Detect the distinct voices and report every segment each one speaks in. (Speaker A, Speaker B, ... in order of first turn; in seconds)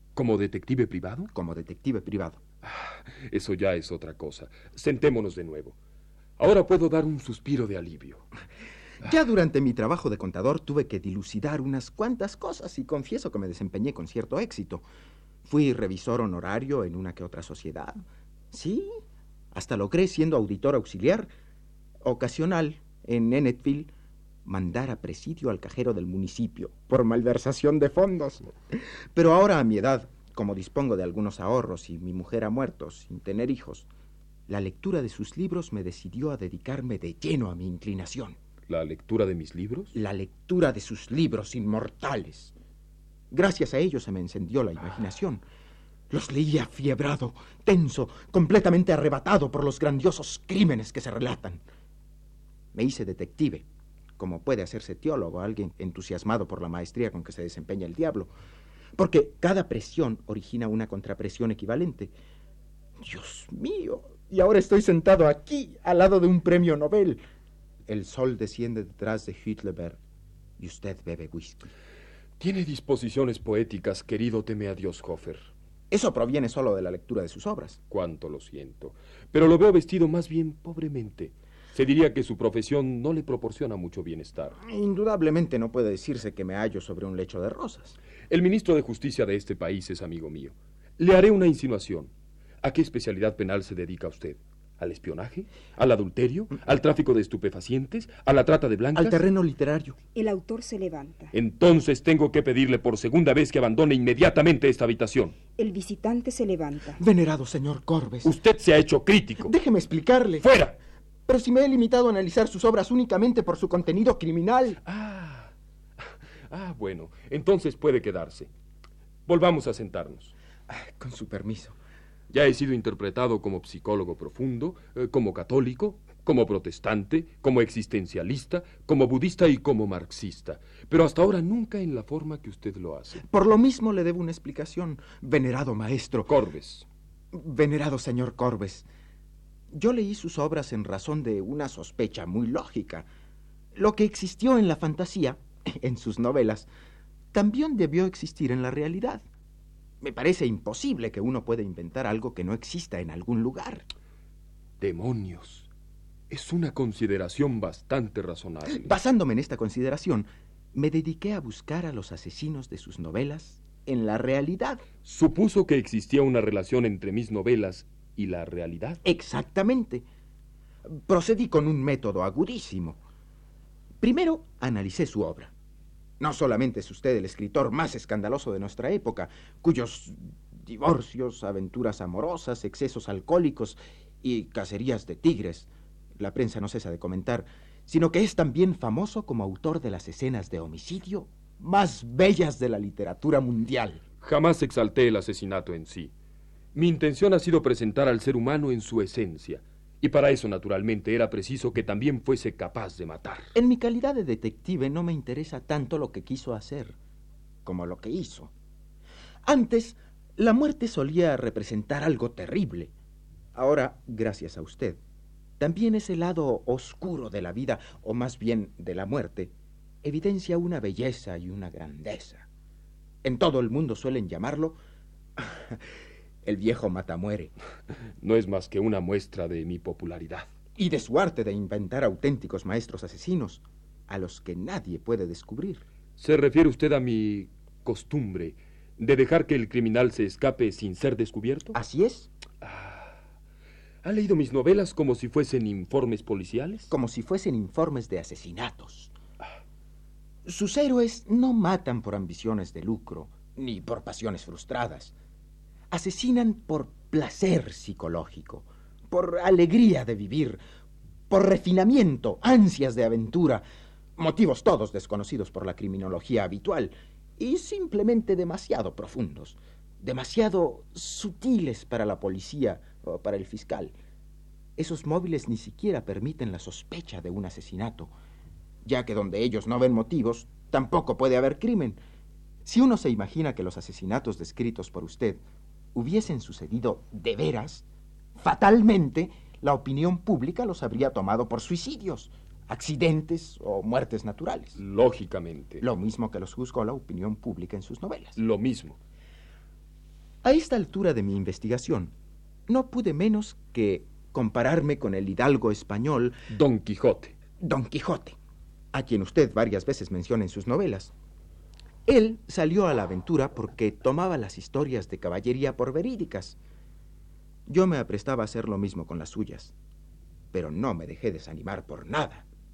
Speaker A: 0.2-1.3, 2.6-5.8, 6.4-8.3, 38.7-39.9, 72.4-75.4, 77.9-84.6, 88.3-92.1, 92.6-99.3, 101.3-105.4, 108.2-109.5, 110.4-110.8, 114.8-118.5, 119.3-120.3, 122.3-133.2, 136.3-136.9, 154.8-155.7, 156.3-158.9, 165.1-169.0, 194.2-196.1, 196.8-203.5, 228.2-230.5, 236.2-241.8, 242.6-243.2, 244.0-246.9, 294.8-295.8, 298.4-299.0, 306.5-307.4
Speaker B: 1.3-2.4, 9.0-14.8, 15.4-21.3, 22.0-23.9, 24.4-33.9, 34.5-38.4, 39.9-42.5, 43.3-45.4, 46.1-51.6, 52.7-53.6, 54.2-58.3, 59.0-62.1, 63.0-67.2, 67.9-70.0, 70.6-71.7, 75.9-77.8, 84.6-88.0, 99.0-100.0, 107.0-108.4, 109.4-110.5, 111.3-114.8, 120.7-121.8, 133.2-136.3, 137.3-138.9, 139.7-143.1, 143.8-146.7, 147.3-149.2, 150.0-153.9, 158.7-164.9, 169.0-170.1, 170.9-173.0, 174.0-175.5, 176.2-194.0, 203.6-207.0, 207.7-208.5, 209.4-212.9, 213.6-215.0, 215.6-219.5, 220.0-222.5, 223.2-224.8, 225.4-225.8, 226.4-227.5, 230.8-235.8, 241.7-242.3, 246.9-249.1, 250.4-255.1, 255.9-260.6, 261.3-263.6, 264.2-273.9, 274.8-278.1, 278.9-282.0, 282.7-285.4, 285.9-287.9, 288.4-294.8, 295.8-298.4, 300.4-302.1, 302.7-306.4, 307.6-308.4, 308.9-311.1, 312.1-316.6, 317.7-319.7, 320.5-322.5
Speaker C: 100.2-101.3, 105.6-107.0